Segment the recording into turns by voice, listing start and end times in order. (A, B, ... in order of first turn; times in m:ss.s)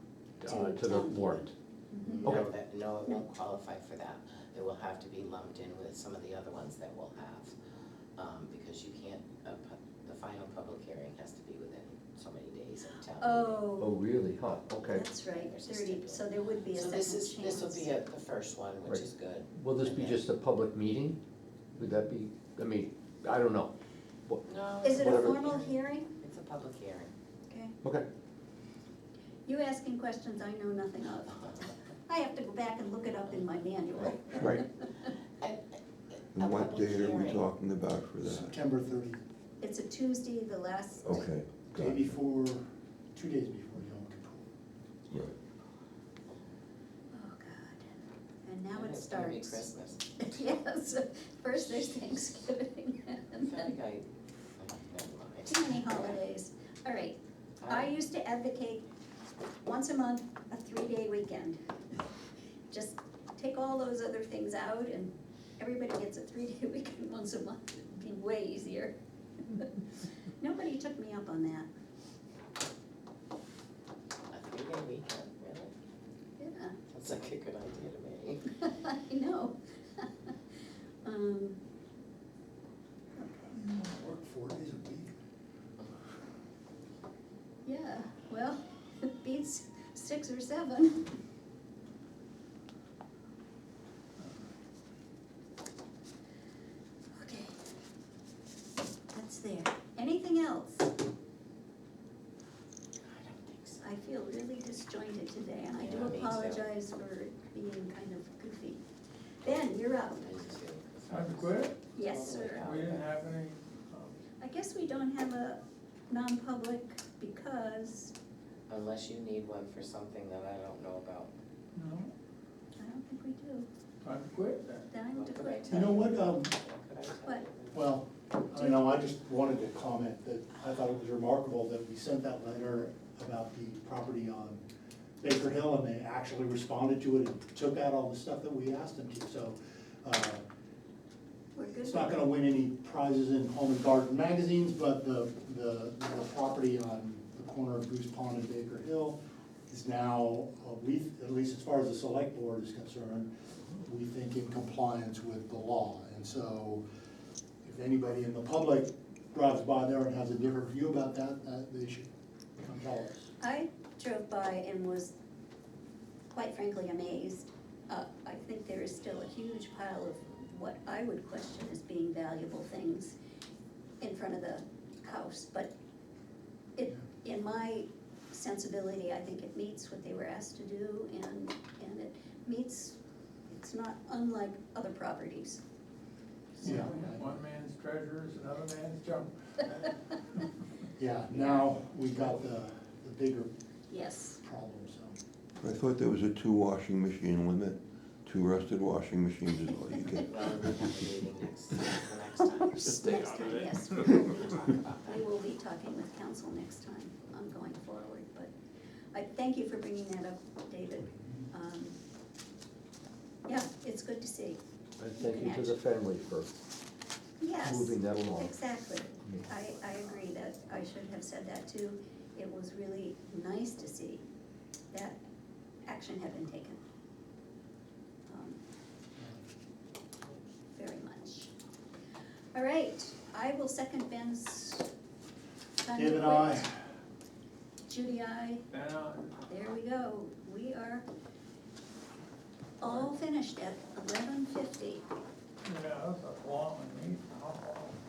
0:00.4-0:01.5 A
0:00.5-0:02.3 B
0:02.1-0:07.5 C
0:08.2-0:13.6 C
0:13.2-0:13.9 B
0:13.8-0:15.1 A
0:14.9-0:17.9 B
0:15.2-0:20.2 C
0:18.9-0:21.2 A
0:21.8-0:23.7 A
0:24.3-0:25.4 A
0:24.5-0:27.1 C
0:24.8-0:26.1 B
0:27.5-0:27.8 B
0:29.5-0:34.7 B
0:34.3-0:34.6 D
0:36.3-0:37.4 C
0:36.4-0:38.6 D
0:38.2-0:39.2 E
0:39.6-0:41.3 B
0:41.0-0:42.1 D
0:41.8-0:44.5 E
0:47.1-0:49.7 B
0:48.7-0:50.3 C
0:50.2-0:53.7 B
0:53.4-0:54.1 C
0:54.6-0:56.2 C
0:55.5-0:58.8 B
0:57.6-0:57.9 C
0:59.6-1:01.6 B
1:02.7-1:09.8 B
1:10.4-1:11.7 B
1:14.3-1:15.7 C
1:16.4-1:16.8 B
1:16.9-1:18.4 C
1:18.6-1:20.3 B
1:21.0-1:21.6 B
1:23.2-1:23.5 B
1:23.5-1:25.2 E
1:27.6-1:31.1 B
1:37.2-1:37.6 B
1:39.1-1:40.9 B
1:43.1-1:43.8 C
1:43.8-1:48.8 B
1:45.8-1:46.6 C
1:49.4-1:50.3 B
1:50.2-1:53.1 C
1:51.1-1:51.8 F
1:52.0-1:52.6 B
1:52.5-1:54.2 F
1:54.4-1:58.1 B
1:58.7-2:01.3 C
2:01.8-2:02.1 F
2:02.8-2:03.7 B
2:04.0-2:04.9 F
2:04.9-2:06.0 B
2:05.1-2:07.8 C
2:05.7-2:06.5 E
2:07.7-2:14.6 E
2:15.2-2:20.4 E
2:21.6-2:22.2 B
2:21.8-2:29.2 E
2:29.7-2:36.8 E
2:37.6-2:42.1 E
2:42.6-2:43.3 E
2:43.4-2:45.1 B
2:46.3-2:53.2 B
2:54.0-2:55.7 B
2:56.8-3:03.0 B
3:03.5-3:05.6 B
3:06.6-3:10.5 F
3:06.6-3:07.3 E
3:11.0-3:13.5 E
3:13.9-3:14.4 B
3:14.4-3:15.2 E
3:15.6-3:20.4 D
3:20.3-3:23.7 C
3:22.7-3:28.5 B
3:24.2-3:25.0 C
3:29.1-3:32.0 B
3:33.5-3:34.6 B
3:35.0-3:36.6 A
3:35.2-3:35.8 B
3:37.4-3:44.2 B
3:37.6-3:38.6 A
3:44.9-3:45.2 B
3:45.9-3:46.8 B
3:48.3-3:48.6 B
3:50.8-3:51.5 B
3:52.5-3:54.9 B
3:55.8-3:56.7 B
3:55.9-3:56.7 E
3:57.8-3:58.6 B
3:58.7-3:59.4 F
3:59.4-4:01.1 B
4:02.8-4:05.1 B
4:05.6-4:08.0 F